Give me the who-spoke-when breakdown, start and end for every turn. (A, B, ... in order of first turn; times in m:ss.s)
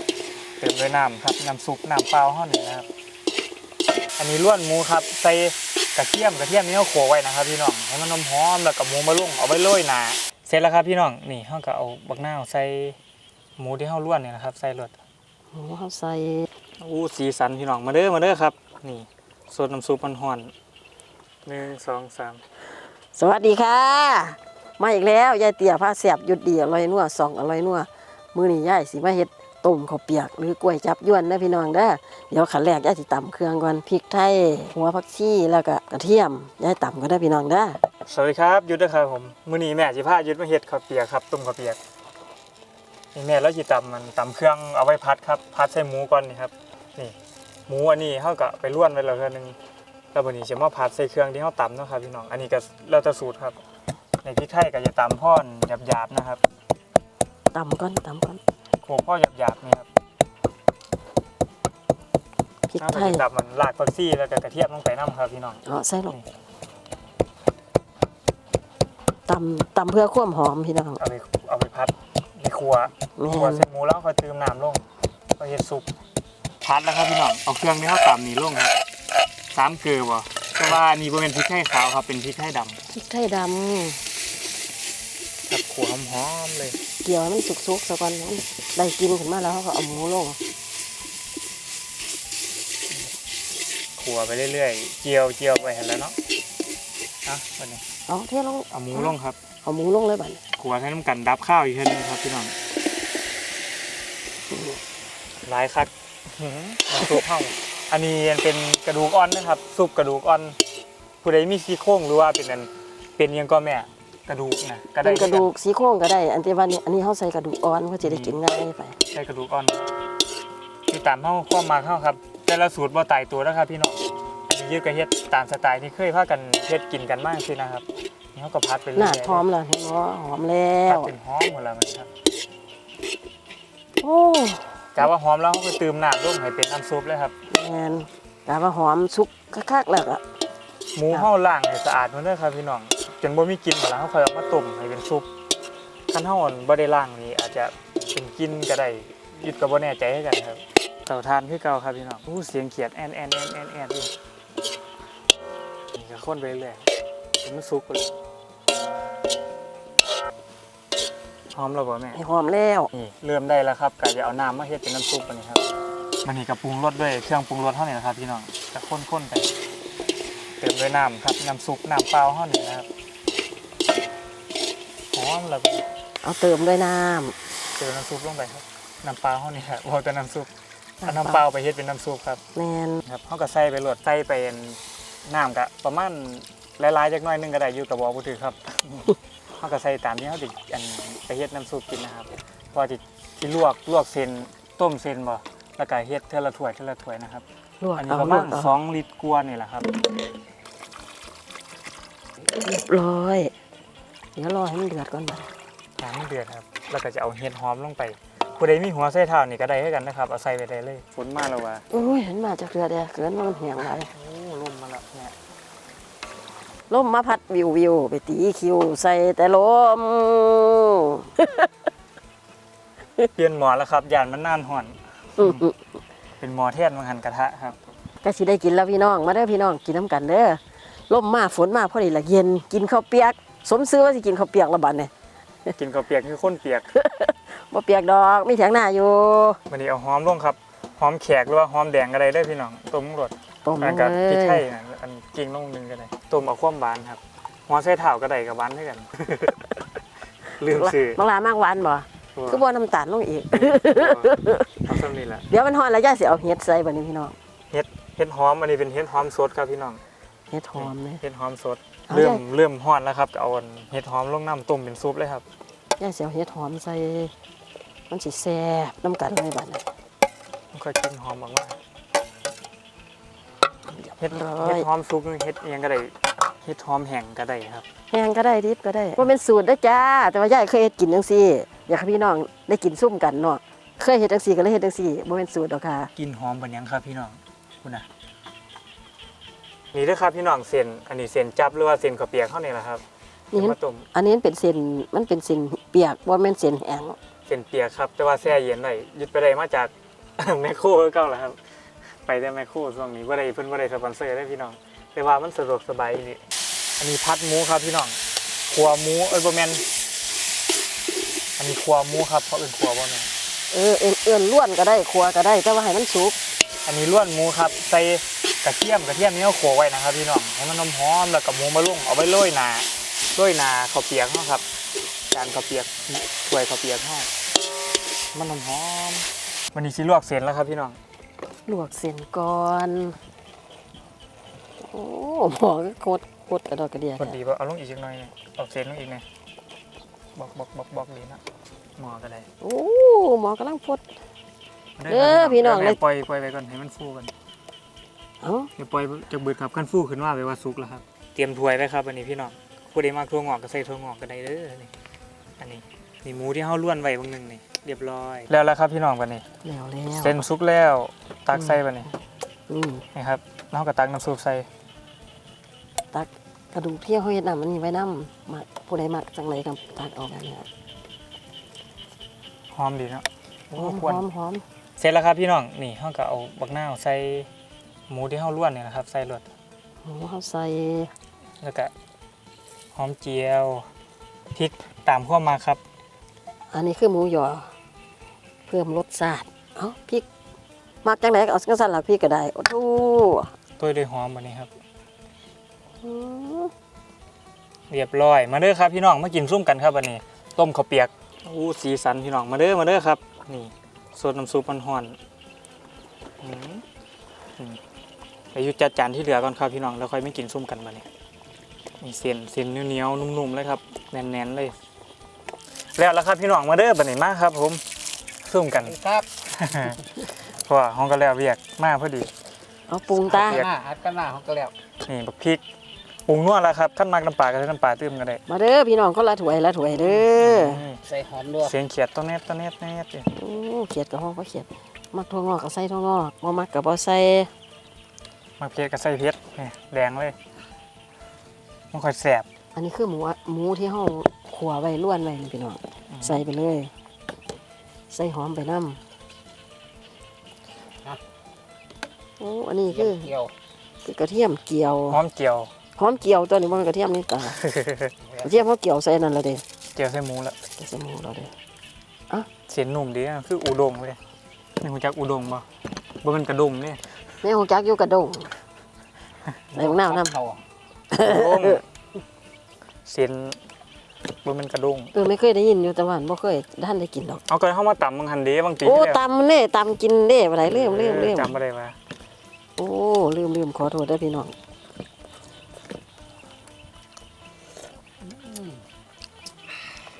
0:00.6-0:02.9 A
0:04.2-0:13.0 A
0:13.6-0:14.9 A
0:15.5-0:16.5 B
0:16.8-0:20.5 A
0:21.4-0:22.4 A
0:23.1-0:37.8 B
0:38.1-0:41.8 A
0:43.1-0:47.2 A
0:47.7-0:49.6 A
0:50.1-0:53.6 A
0:54.2-0:56.4 A
0:57.5-0:58.4 B
0:58.8-0:59.9 A
1:02.7-1:03.2 B
1:02.8-1:06.2 A
1:05.6-1:06.1 B
1:09.3-1:11.0 B
1:11.0-1:14.8 A
1:13.2-1:13.6 B
1:15.4-1:15.9 A
1:16.6-1:18.7 A
1:19.5-1:22.8 A
1:22.9-1:24.0 B
1:25.5-1:26.8 A
1:27.0-1:30.4 B
1:34.0-1:36.2 A
1:37.2-1:37.8 A
1:38.1-1:40.4 B
1:38.7-1:39.4 A
1:40.6-1:42.5 A
1:44.5-1:44.8 B
1:45.4-1:50.6 A
1:47.0-1:47.2 B
1:51.2-1:55.5 A
1:55.0-1:59.0 B
1:58.0-1:58.4 A
1:59.1-1:59.9 A
2:00.9-2:09.4 A
2:08.9-2:11.1 B
2:10.8-2:12.1 A
2:14.0-2:15.1 B
2:14.9-2:17.3 A
2:17.5-2:20.2 B
2:20.9-2:25.3 A
2:26.1-2:34.1 A
2:35.9-2:36.9 A
2:37.4-2:38.1 A
2:41.5-2:42.2 A
2:42.1-2:42.9 B
2:42.9-2:45.6 A
2:46.2-2:49.5 A
2:50.6-2:52.9 A
2:55.1-2:55.9 A
2:56.2-2:57.4 B
2:57.8-3:00.5 A
3:01.0-3:01.4 B
3:01.0-3:02.4 A
3:02.5-3:03.0 B
3:03.0-3:17.4 A
3:17.8-3:18.8 B
3:18.0-3:19.9 A
3:22.4-3:23.5 B
3:24.4-3:25.5 B
3:26.0-3:31.8 A
3:31.9-3:34.1 B
3:34.1-3:35.3 A
3:36.9-3:41.7 B
3:43.3-3:45.6 A
3:45.4-3:45.8 B
3:46.4-3:47.8 A
3:48.2-3:55.1 B
3:55.8-3:56.9 A
3:56.9-3:59.6 B
3:59.7-4:09.5 A
4:03.6-4:04.6 B
4:10.5-4:11.2 A
4:10.7-4:14.8 B
4:12.3-4:12.6 A
4:13.5-4:15.5 A
4:15.5-4:17.4 B
4:17.7-4:20.0 A
4:20.5-4:21.2 B
4:20.8-4:25.4 A
4:22.1-4:22.4 B
4:26.0-4:27.3 B
4:28.1-4:29.8 B
4:30.7-4:31.8 A
4:34.0-4:34.9 B
4:34.2-4:37.8 A
4:38.1-4:46.1 B
4:46.2-4:48.1 A
4:49.9-4:53.0 A
4:53.5-4:57.2 B
4:53.6-4:54.1 A
4:57.5-5:01.6 A
5:02.2-5:06.4 A
5:07.0-5:08.2 A
5:08.7-5:09.8 A
5:11.6-5:13.3 A
5:13.7-5:16.4 B
5:16.8-5:24.6 A
5:25.3-5:27.3 A
5:28.3-5:31.0 A
5:31.6-5:33.2 B
5:34.8-5:37.4 B
5:37.2-5:39.2 A
5:40.3-5:41.4 A
5:42.0-5:42.5 A
5:42.6-5:44.0 B
5:45.0-5:47.3 A
5:45.1-5:46.0 B
5:48.4-5:48.7 B
5:48.8-5:54.9 A
5:55.6-5:59.4 A
5:59.6-6:00.4 B
6:00.2-6:02.1 A
6:01.5-6:01.8 B
6:02.7-6:03.0 B
6:03.1-6:04.7 A
6:06.1-6:10.6 B
6:12.7-6:14.2 A
6:13.8-6:14.6 B
6:15.0-6:17.5 A
6:18.1-6:19.5 A
6:20.0-6:21.1 B
6:21.6-6:21.9 A
6:22.9-6:23.9 A
6:24.5-6:25.8 A
6:26.7-6:27.7 B
6:28.7-6:30.2 B
6:31.0-6:33.5 B
6:33.8-6:34.7 A
6:36.0-6:36.7 B
6:37.9-6:45.2 A
6:46.4-6:46.8 A
6:48.5-6:51.1 A
6:52.0-6:54.8 A
6:55.9-6:57.8 A
6:58.4-6:59.0 A
6:58.8-6:59.2 C
6:59.5-7:02.3 A
7:02.9-7:03.6 B
7:03.3-7:03.7 A
7:03.4-7:04.7 C
7:05.0-7:05.6 A
7:06.3-7:08.4 A
7:08.5-7:10.8 B
7:09.8-7:11.0 A
7:11.1-7:11.7 C
7:11.6-7:13.3 A
7:13.3-7:17.5 B
7:18.6-7:20.4 A
7:21.9-7:22.5 A
7:22.7-7:26.9 B
7:26.1-7:26.4 A
7:28.1-7:29.0 B
7:32.4-7:33.3 B
7:33.0-7:33.5 C
7:34.0-7:35.2 B
7:35.1-7:35.7 A
7:36.0-7:37.6 B
7:37.6-7:38.1 A
7:38.4-7:39.6 B
7:39.9-7:40.6 A
7:40.7-7:41.5 B
7:42.7-7:44.2 A
7:44.8-7:45.6 A
7:46.2-7:47.0 A
7:47.4-7:48.5 B
7:49.7-7:50.4 B
7:49.8-7:50.6 C
7:51.1-7:51.8 B
7:51.2-7:51.8 A
7:53.0-7:53.6 A
7:54.4-7:55.1 A
7:55.1-7:57.4 B
7:57.5-7:59.2 A
7:58.8-8:01.5 B
8:00.7-8:02.0 A
8:02.8-8:04.5 B
8:08.2-8:08.8 C